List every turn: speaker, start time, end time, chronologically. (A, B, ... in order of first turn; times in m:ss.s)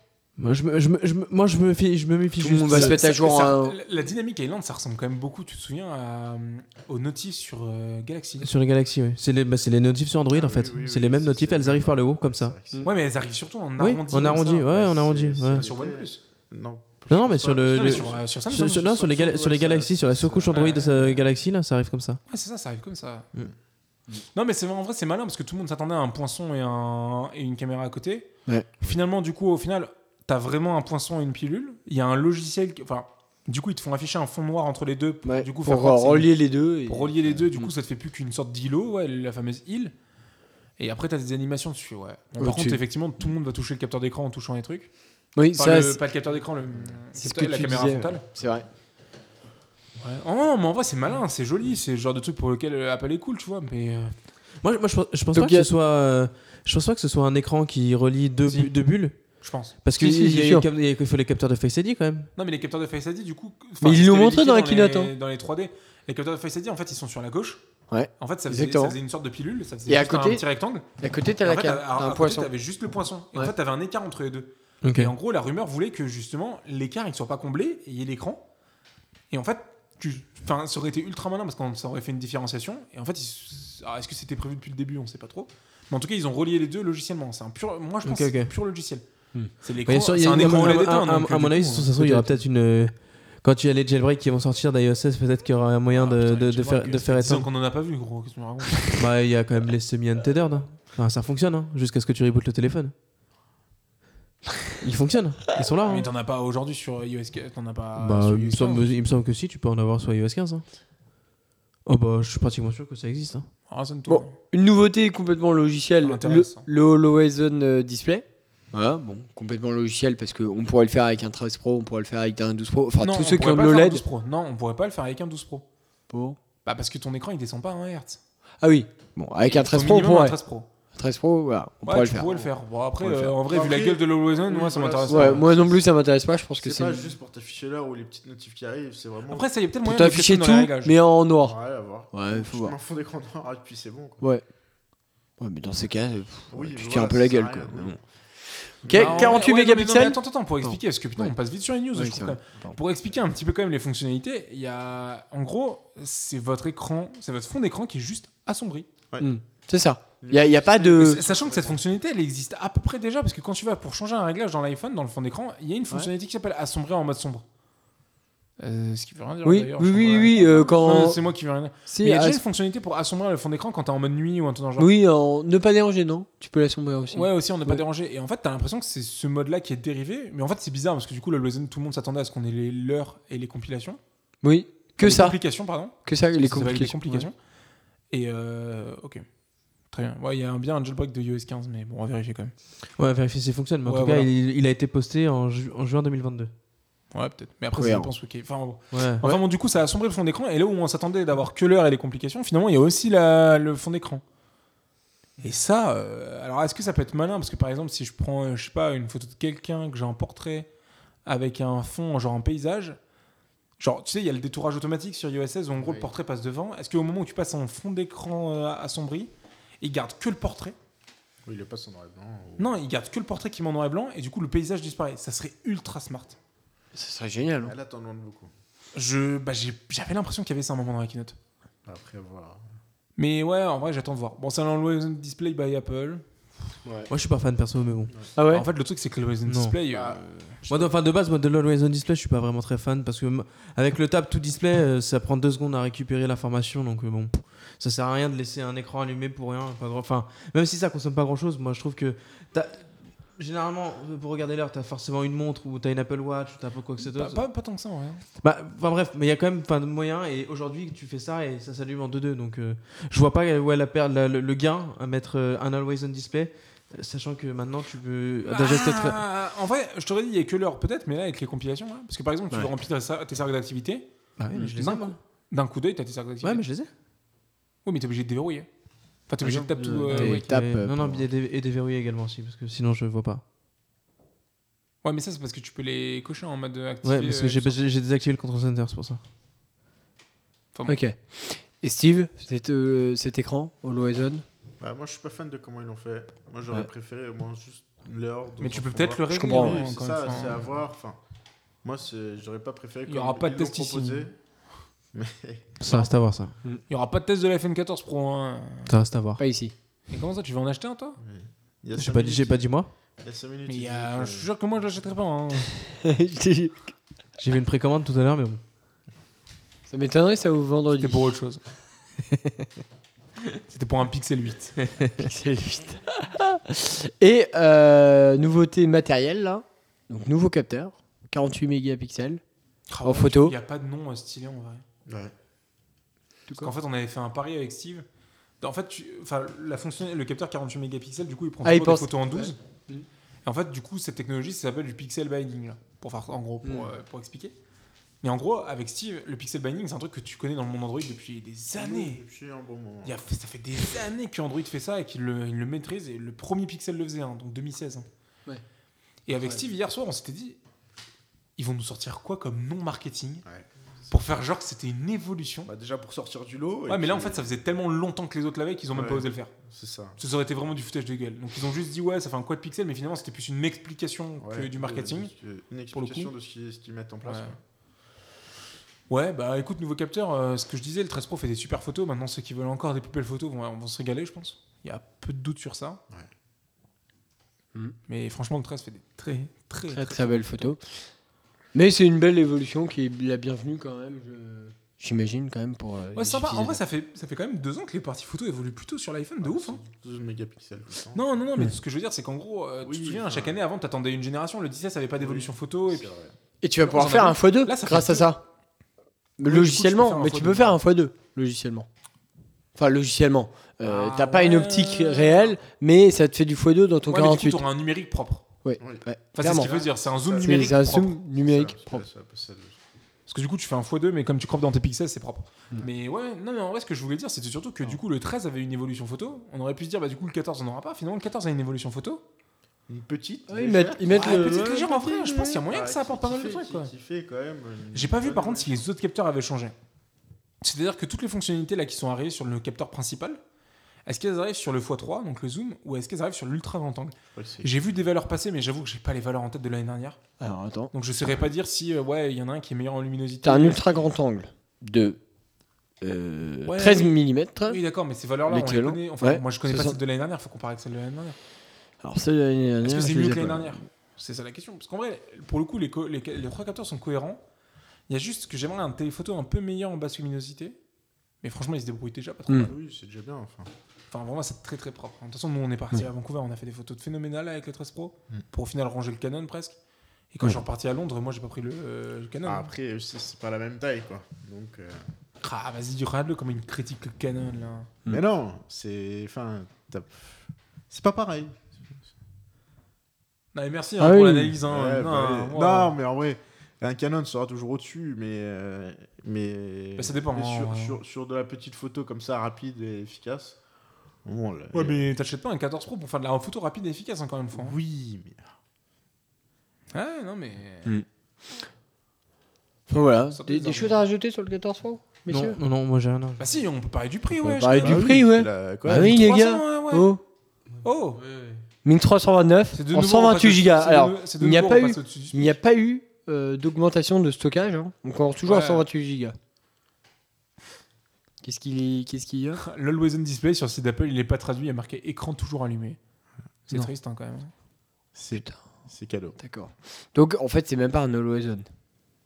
0:00.4-0:03.0 A
0:02.4-0:03.8 B
0:02.7-0:08.5 C
0:08.4-0:12.6 A
0:10.3-0:12.9 D
0:12.8-0:14.7 C
0:13.8-0:15.7 A
0:14.2-0:18.2 D
0:15.5-0:16.2 C
0:17.1-0:22.2 A
0:17.6-0:19.9 C
0:20.0-0:21.3 D
0:20.5-0:20.9 C
0:22.3-0:23.3 C
0:24.3-0:28.3 C
0:28.8-0:36.3 C
0:35.2-0:37.7 B
0:36.9-0:39.9 C
0:40.8-0:44.9 C
0:42.4-0:42.8 B
0:45.4-0:46.0 B
0:45.6-0:48.2 C
0:47.2-0:48.7 B
0:50.0-0:54.1 C
0:54.6-0:59.2 A
0:55.3-0:55.7 B
0:59.4-0:59.8 C
0:59.8-1:02.3 A
1:00.0-1:00.7 B
1:02.4-1:07.6 C
1:03.8-1:05.1 B
1:07.9-1:09.0 B
1:08.2-1:10.9 C
1:09.9-1:10.4 B
1:11.0-1:12.5 B
1:11.4-1:18.4 C
1:14.8-1:15.1 A
1:19.3-1:29.0 C
1:28.0-1:28.5 A
1:29.6-1:32.4 C
1:29.8-1:37.5 A
1:35.9-1:39.1 C
1:39.0-1:42.9 A
1:44.8-1:46.1 A
1:45.8-1:48.9 C
1:48.0-1:50.6 A
1:51.9-1:53.5 A
1:53.7-1:54.3 C
1:54.1-2:04.0 B
1:56.0-1:56.7 C
2:03.0-2:05.6 C
2:06.1-2:06.4 B
2:06.6-2:08.2 C
2:08.6-2:10.4 B
2:09.5-2:10.7 C
2:10.9-2:12.3 B
2:11.8-2:15.5 C
2:12.2-2:12.5 D
2:13.0-2:13.3 B
2:13.2-2:15.8 D
2:15.1-2:17.2 B
2:16.6-2:19.5 D
2:19.3-2:21.0 C
2:19.8-2:21.6 B
2:21.4-2:24.3 D
2:22.1-2:22.8 B
2:25.4-2:28.0 B
2:26.5-2:28.0 D
2:28.7-2:31.4 B
2:28.8-2:29.4 D
2:28.9-2:38.9 C
2:32.0-2:32.8 B
2:39.2-2:41.2 B
2:40.2-2:41.8 D
2:41.0-2:47.4 C
2:48.6-2:54.9 C
2:49.4-2:51.2 B
2:50.3-2:51.1 D
2:51.9-2:52.4 B
2:54.8-2:57.8 B
2:57.1-3:04.0 C
3:04.4-3:05.4 B
3:05.0-3:07.3 C
3:06.1-3:07.3 B
3:08.1-3:09.2 C
3:09.9-3:12.5 C
3:13.0-3:16.5 A
3:13.9-3:14.3 C
3:17.1-3:24.2 C
3:17.8-3:18.1 B
3:18.9-3:19.4 A
3:25.4-3:30.7 C
3:31.3-3:33.0 C
3:33.8-3:40.8 C
3:35.8-3:36.1 D
3:41.5-3:42.8 D
3:42.6-3:46.4 C
3:46.9-3:47.8 B
3:47.6-3:48.5 D
3:49.0-3:51.4 C
3:51.9-3:52.6 D
3:53.2-3:56.2 C
3:57.1-3:58.1 A
3:58.4-3:58.7 B
3:58.5-4:00.6 C
3:59.5-3:59.8 A
3:59.9-4:00.8 D
4:00.7-4:12.9 A
4:13.4-4:17.4 A
4:17.0-4:18.2 C
4:18.4-4:29.2 A
4:28.5-4:34.1 C
4:34.4-4:35.2 A
4:34.7-4:36.6 C
4:36.4-4:36.9 A
4:37.8-4:38.7 C
4:39.3-4:40.6 C
4:39.4-4:41.3 B
4:40.1-4:43.4 A
4:45.0-4:47.8 C
4:47.0-4:49.2 A
4:50.9-4:54.4 B
4:54.8-5:01.2 D
4:58.6-5:00.6 C
4:59.3-4:59.8 B
5:01.8-5:04.3 D
5:03.1-5:04.3 C
5:05.1-5:05.7 D
5:05.8-5:06.5 A
5:06.9-5:08.9 C
5:08.9-5:09.4 A
5:09.4-5:09.7 B
5:10.1-5:11.2 C
5:11.2-5:12.6 D
5:12.0-5:12.9 A
5:13.2-5:14.5 D
5:13.7-5:15.8 C
5:15.8-5:16.9 B
5:17.4-5:18.6 A
5:19.9-5:21.3 B
5:21.0-5:21.6 C
5:23.5-5:24.8 C
5:25.2-5:32.4 B
5:32.9-5:34.8 C
5:33.0-5:33.6 B
5:35.1-5:35.3 D
5:36.5-5:36.7 B
5:36.6-5:38.0 C
5:38.6-5:42.6 C
5:41.6-5:43.1 B
5:43.4-5:47.5 C
5:46.6-5:46.9 B
5:48.2-5:52.2 C
5:51.8-5:53.2 D
5:53.0-5:58.1 C
5:59.3-6:00.6 C
6:01.6-6:03.4 C
6:04.1-6:05.7 C
6:05.7-6:07.5 D
6:06.9-6:09.5 C
6:08.9-6:10.2 D
6:10.2-6:15.3 C
6:14.4-6:17.6 D
6:15.9-6:16.3 C
6:17.2-6:17.6 C
6:19.1-6:26.0 C
6:28.1-6:30.7 C
6:29.9-6:30.8 B
6:31.7-6:36.8 B
6:36.2-6:39.8 C
6:39.4-6:41.2 D
6:41.1-6:46.1 C
6:42.8-6:43.6 D
6:45.2-6:46.3 D
6:46.6-6:48.4 B
6:46.8-6:48.3 C
6:49.4-6:51.9 B
6:49.5-6:50.8 C
6:52.8-6:57.6 B
6:53.8-6:55.6 C
6:57.1-6:58.4 C
6:58.6-6:59.7 B
6:58.8-7:00.8 D
6:59.4-7:01.2 C
7:00.4-7:02.1 B
7:01.4-7:02.8 D
7:03.3-7:12.2 C
7:12.9-7:18.8 D
7:13.5-7:15.3 B
7:14.1-7:16.9 C
7:17.9-7:19.7 C
7:20.6-7:23.4 C
7:24.1-7:30.2 C
7:27.4-7:27.8 D
7:30.4-7:30.9 B
7:30.9-7:34.1 C
7:33.4-7:35.2 B
7:36.0-7:37.8 B
7:36.7-7:41.4 C
7:38.5-7:40.0 B
7:42.0-7:43.8 B
7:42.8-7:47.4 C
7:48.1-7:50.8 C
7:51.4-7:52.7 C
7:52.6-7:53.7 D
7:54.1-7:59.8 C
8:00.3-8:02.7 C
8:02.4-8:05.0 D
8:05.4-8:07.9 C
8:08.1-8:10.4 D
8:10.9-8:11.6 D
8:13.5-8:16.0 C
8:14.0-8:14.6 B
8:14.6-8:23.6 D
8:20.0-8:21.0 C
8:24.2-8:25.0 D
8:24.7-8:27.8 C
8:27.5-8:28.4 D
8:29.9-8:30.9 C
8:32.9-8:35.6 B
8:33.3-8:34.0 C
8:35.3-8:36.4 A
8:36.4-8:38.2 C
8:37.3-8:40.2 B
8:37.8-8:39.2 D
8:38.9-8:40.2 C
8:40.8-8:41.2 C
8:41.2-8:41.6 A
8:41.8-8:49.4 B
8:42.7-8:45.6 C
8:48.5-8:48.9 C
8:51.4-8:52.6 B
8:52.6-8:56.0 C
8:56.7-8:57.5 C
8:58.2-8:59.4 D
8:58.3-8:58.6 B
8:59.4-9:01.7 B